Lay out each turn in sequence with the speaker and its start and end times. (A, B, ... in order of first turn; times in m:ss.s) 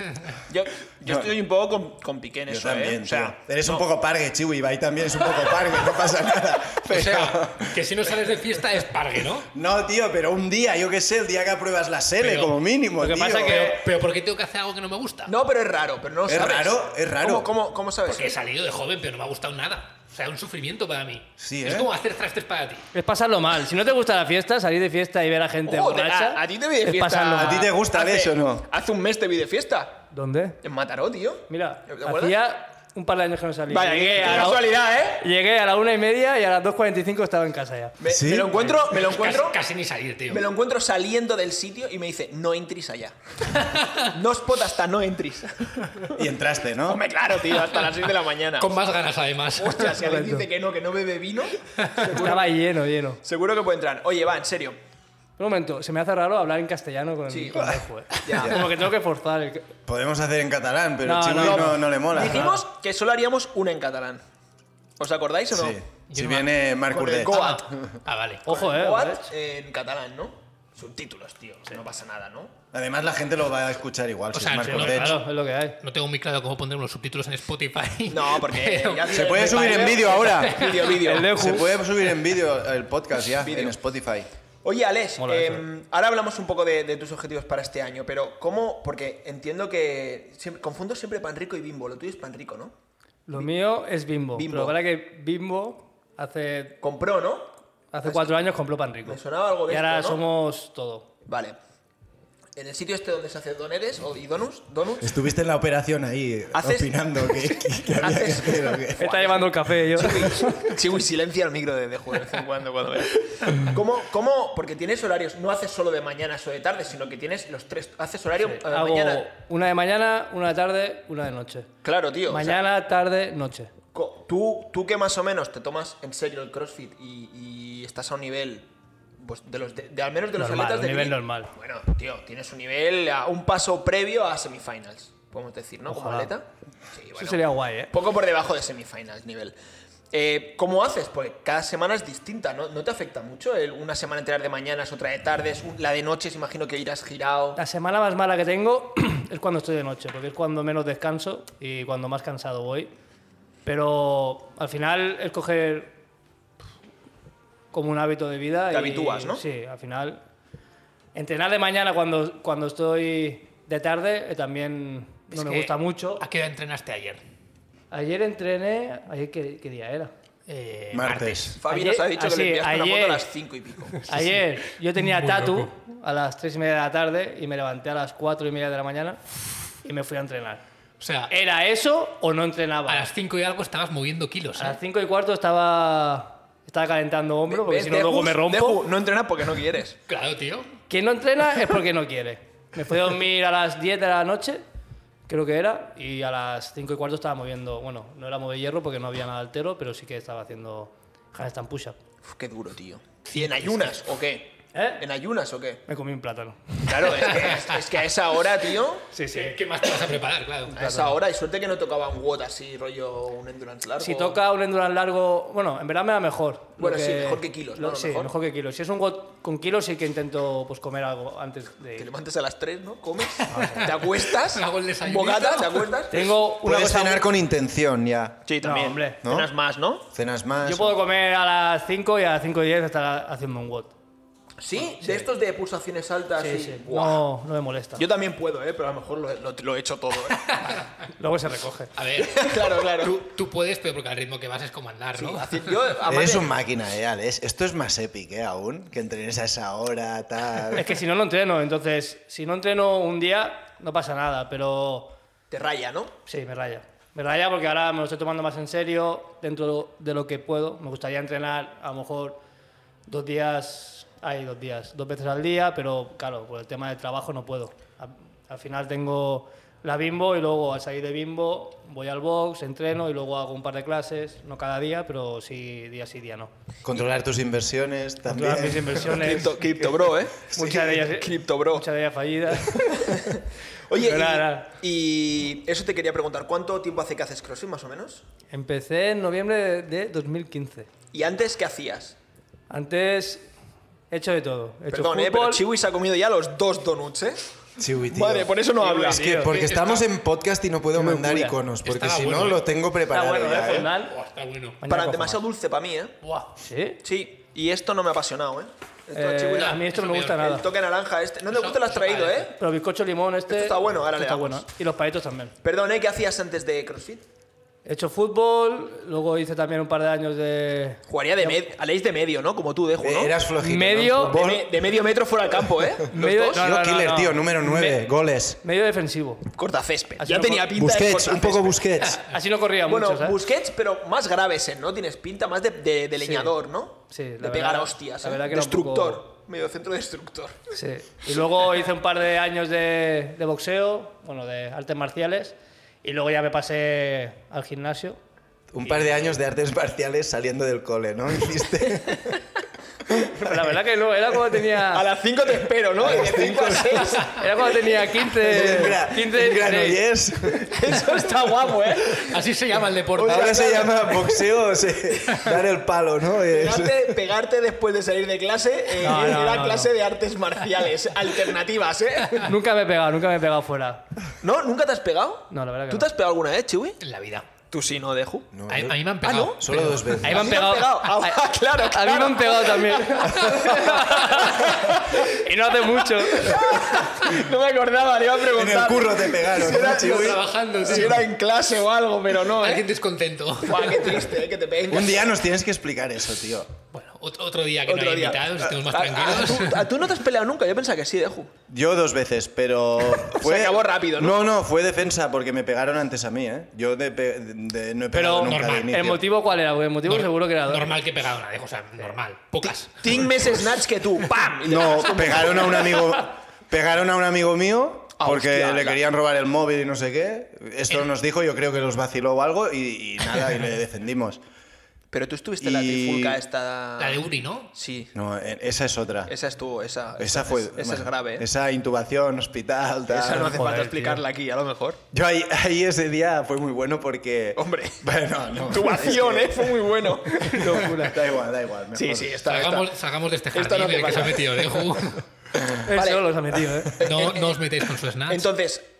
0:00.5-0:03.8 A
0:01.1-0:01.3 B
0:02.5-0:07.8 B
0:06.8-0:09.5 C
0:09.5-0:13.7 B
0:12.2-0:12.6 C
0:13.0-0:13.8 D
0:13.4-0:15.3 C
0:15.3-0:18.3 A
0:16.3-0:17.5 B
0:18.1-0:22.9 C
0:21.4-0:21.9 B
0:22.9-0:27.7 D
0:25.7-0:30.0 A
0:27.4-0:28.7 B
0:30.1-0:30.6 D
0:30.6-0:32.4 A
0:31.5-0:38.0 D
0:33.7-0:35.2 A
0:38.0-0:39.6 A
0:38.1-0:38.5 B
0:38.6-0:40.5 C
0:40.3-0:43.2 A
0:43.6-0:44.1 C
0:44.0-0:46.2 A
0:46.1-0:47.0 B
0:46.8-0:48.7 A
0:48.6-0:50.0 C
0:49.6-0:52.6 A
0:50.0-0:50.5 D
0:51.8-0:52.1 C
0:52.1-0:53.2 D
0:53.2-0:54.8 A
0:55.4-0:59.7 D
0:57.3-0:58.7 A
0:58.2-0:58.6 B
0:59.9-1:02.5 B
1:01.0-1:02.6 D
1:01.3-1:04.2 A
1:05.0-1:05.8 A
1:05.5-1:07.7 B
1:06.1-1:06.5 C
1:06.9-1:07.8 A
1:07.2-1:08.4 C
1:08.4-1:09.3 D
1:08.5-1:12.5 A
1:12.7-1:15.2 B
1:14.3-1:15.2 C
1:14.6-1:15.8 D
1:15.8-1:21.0 C
1:18.1-1:21.3 A
1:19.1-1:24.3 B
1:21.0-1:21.8 D
1:23.3-1:23.8 A
1:24.6-1:32.7 A
1:25.2-1:25.7 D
1:33.3-1:36.8 D
1:34.4-1:34.8 A
1:36.8-1:37.5 A
1:37.9-1:41.1 D
1:38.0-1:38.4 A
1:39.0-1:40.2 A
1:41.3-1:41.6 A
1:42.6-1:45.1 A
1:45.0-1:49.2 B
1:46.5-1:59.3 A
1:49.0-1:50.7 D
1:58.4-2:01.7 D
2:01.8-2:02.6 A
2:02.3-2:03.7 D
2:03.9-2:19.6 A
2:10.4-2:11.5 D
2:15.9-2:16.3 D
2:17.2-2:17.9 D
2:20.1-2:27.6 A
2:27.6-2:32.9 D
2:33.6-2:36.0 D
2:37.7-2:40.2 D
2:38.7-2:39.4 A
2:41.2-2:46.2 D
2:45.3-2:47.2 C
2:47.9-2:50.1 D
2:50.5-2:51.6 C
2:50.9-2:51.6 B
2:51.6-2:54.0 A
2:51.7-2:53.3 D
2:54.0-2:59.2 D
2:55.0-2:55.7 C
2:59.8-3:00.6 D
3:01.0-3:01.3 C
3:01.3-3:03.1 D
3:02.9-3:04.8 C
3:04.6-3:08.8 D
3:07.5-3:10.0 A
3:10.1-3:10.7 C
3:10.9-3:14.6 D
3:15.3-3:22.0 D
3:22.2-3:25.8 A
3:23.3-3:23.9 C
3:24.7-3:25.0 D
3:25.9-3:27.2 D
3:26.8-3:29.1 A
3:27.2-3:27.8 C
3:29.1-3:29.6 D
3:29.3-3:30.8 C
3:30.7-3:31.2 D
3:30.7-3:34.4 A
3:34.0-3:42.1 D
3:36.8-3:38.3 A
3:42.0-3:46.3 A
3:43.5-3:44.0 D
3:43.7-3:45.9 C
3:46.1-3:47.2 D
3:46.6-3:48.4 B
3:48.5-3:50.0 A
3:48.6-3:49.2 D
3:49.2-3:49.5 B
3:50.1-3:51.0 B
3:50.6-3:53.9 D
3:54.6-3:57.2 A
3:55.0-3:55.3 D
3:56.4-3:58.0 D
3:58.0-4:00.7 A
4:00.6-4:00.9 C
4:01.2-4:01.9 D
4:02.0-4:05.8 C
4:02.2-4:03.2 A
4:05.2-4:06.6 A
4:06.1-4:10.9 B
4:10.7-4:15.1 D
4:15.5-4:16.1 A
4:16.3-4:22.4 D
4:23.1-4:36.5 D
4:36.8-4:39.4 B
4:38.3-4:39.7 D
4:39.1-4:41.9 A
4:40.5-4:42.9 D
4:42.5-4:48.2 A
4:44.0-4:44.7 D
4:48.5-4:50.9 D
4:51.1-4:52.2 A
4:52.7-4:53.5 D
4:54.1-4:55.6 D
4:54.9-4:57.5 A
4:57.8-4:58.5 B
4:58.1-4:59.3 A
4:58.8-4:59.6 D
4:59.0-5:03.9 B
4:59.5-5:00.1 C
5:01.0-5:01.6 D
5:01.8-5:02.6 C
5:03.1-5:04.2 D
5:03.5-5:04.8 C
5:04.8-5:05.4 D
5:04.8-5:06.2 A
5:06.2-5:06.5 C
5:06.6-5:07.0 D
5:07.0-5:12.6 A
5:09.1-5:10.7 D
5:09.6-5:10.5 C
5:11.5-5:12.5 C
5:12.6-5:15.5 D
5:13.5-5:14.6 A
5:15.6-5:17.2 A
5:17.8-5:21.6 D
5:21.1-5:23.4 A
5:23.0-5:24.7 B
5:23.6-5:24.4 D
5:24.3-5:26.7 A
5:26.1-5:28.1 D
5:26.5-5:28.6 B
5:28.6-5:29.5 D
5:29.5-5:32.1 A
5:30.2-5:30.7 D
5:30.7-5:32.2 B
5:32.2-5:33.4 D
5:32.8-5:40.6 A
5:36.2-5:36.5 D
5:37.1-5:39.2 D
5:40.7-5:48.2 D
5:48.7-5:52.4 B
5:48.8-5:49.1 D
5:53.3-5:55.1 D
5:54.8-5:58.9 A
5:56.0-5:57.2 B
5:57.2-6:00.0 D
5:58.4-6:01.2 B
6:00.6-6:02.4 A
6:02.1-6:03.9 C
6:03.2-6:04.5 A
6:03.2-6:07.3 B
6:06.4-6:12.6 A
6:09.0-6:09.9 D
6:12.4-6:14.1 D
6:14.4-6:17.0 A
6:15.5-6:16.1 D
6:17.0-6:17.5 C
6:17.7-6:18.5 A
6:18.5-6:20.6 B
6:18.7-6:20.4 C
6:19.2-6:19.6 A
6:20.2-6:26.7 D
6:20.3-6:25.3 A
6:26.2-6:32.9 A
6:28.5-6:30.4 B
6:29.6-6:31.3 C
6:32.4-6:34.3 C
6:33.6-6:35.3 A
6:34.9-6:36.7 B
6:36.9-6:39.9 C
6:37.9-6:41.5 A
6:41.7-6:49.2 B
6:43.2-6:44.4 A
6:48.1-6:50.9 D
6:48.4-6:48.9 C
6:50.0-6:53.3 C
6:52.6-6:56.0 A
6:54.7-7:04.4 B
6:58.2-6:59.0 A
7:05.1-7:08.1 A
7:05.6-7:06.4 B
7:07.0-7:07.7 C
7:08.1-7:09.3 B
7:09.3-7:11.5 A
7:10.2-7:13.6 B
7:13.1-7:15.0 A
7:13.4-7:14.2 D
7:15.1-7:19.8 B
7:17.6-7:18.0 A
7:18.5-7:21.2 A
7:20.4-7:22.4 B
7:20.5-7:21.2 D
7:21.9-7:22.9 A
7:22.4-7:25.2 C
7:23.5-7:24.9 A
7:25.8-7:27.0 D
7:25.9-7:27.6 A
7:27.0-7:28.5 C
7:28.3-7:28.9 A